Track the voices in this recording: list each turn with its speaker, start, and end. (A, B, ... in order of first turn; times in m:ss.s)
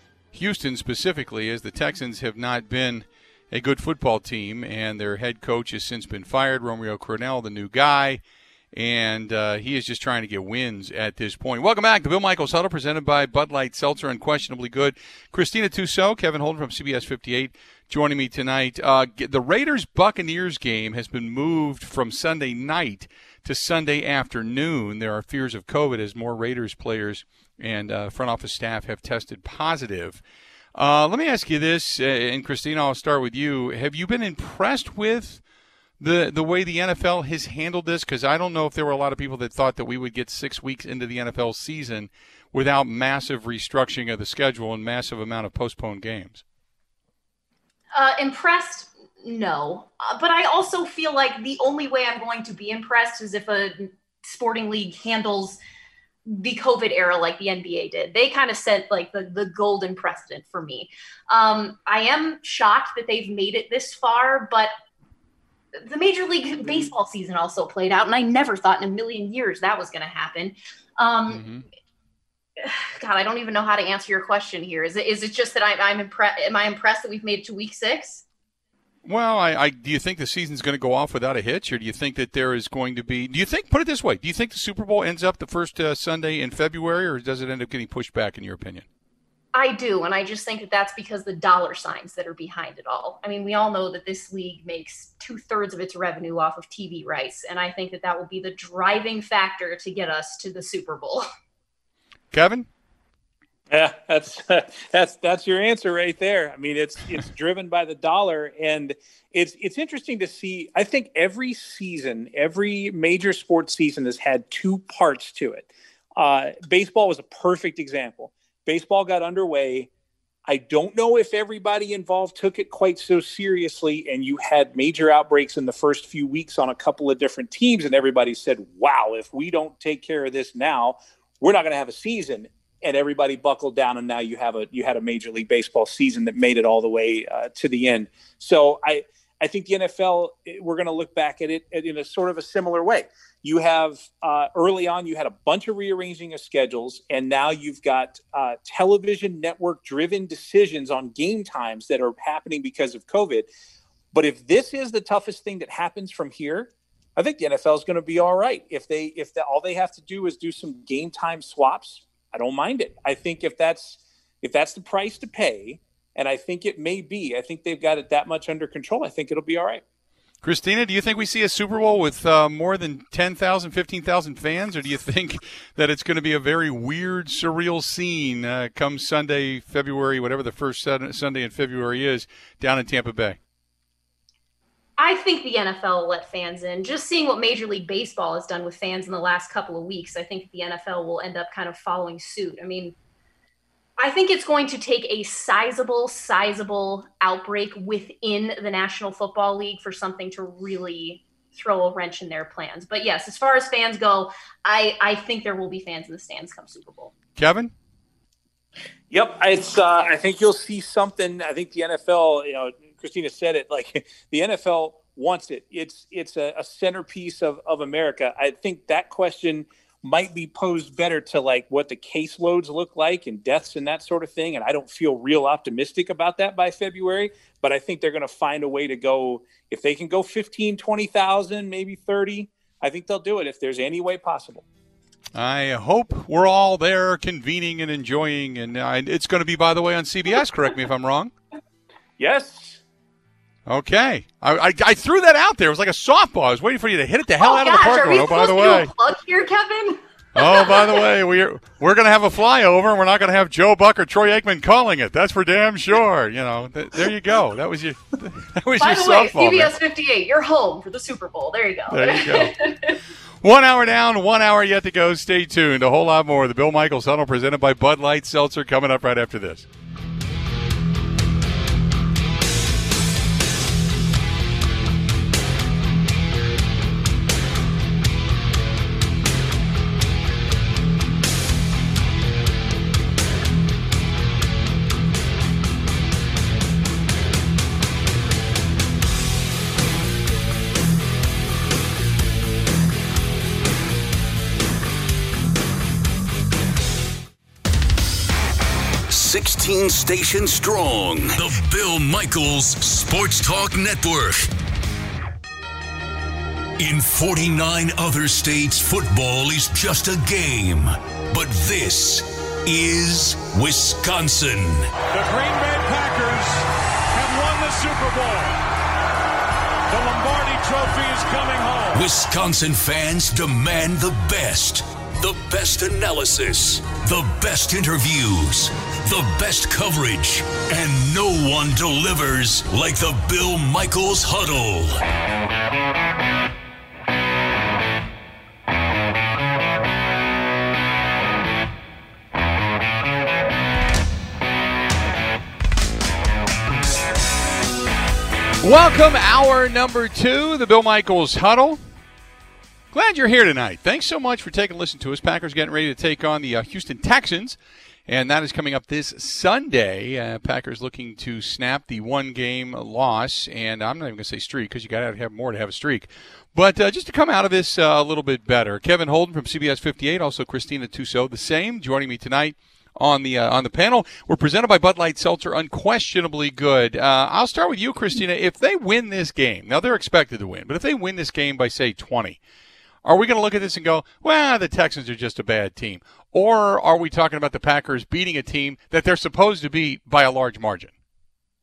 0:00.3-0:08.2 A
0:08.7-0:30.2 A
0:30.8-0:35.4 A
0:36.0-0:46.4 A
0:47.9-0:55.6 B
0:56.3-1:04.7 B
1:05.8-1:11.4 B
1:11.3-1:11.6 A
1:12.6-1:18.2 B
1:19.0-1:28.8 A
1:29.5-1:41.3 B
1:42.3-1:42.7 A
1:43.7-1:59.9 C
2:00.5-2:33.5 C
2:34.1-2:49.8 C
2:50.4-3:03.4 A
3:05.0-3:13.0 B
3:14.0-3:27.1 B
3:27.4-3:27.7 A
3:29.1-3:54.6 C
3:55.4-4:01.3 A
4:02.2-4:02.8 C
4:03.7-4:08.9 A
4:07.4-4:11.0 B
4:10.4-4:19.7 A
4:18.8-4:23.0 B
4:21.9-4:22.6 A
4:23.4-4:29.7 A
4:59.1-5:04.5 D
5:06.8-5:14.9 D
5:15.1-5:18.6 E
5:19.9-5:22.1 E
5:21.9-5:35.0 D
5:48.6-5:51.8 A
5:52.9-6:22.4 A
6:23.0-6:30.9 A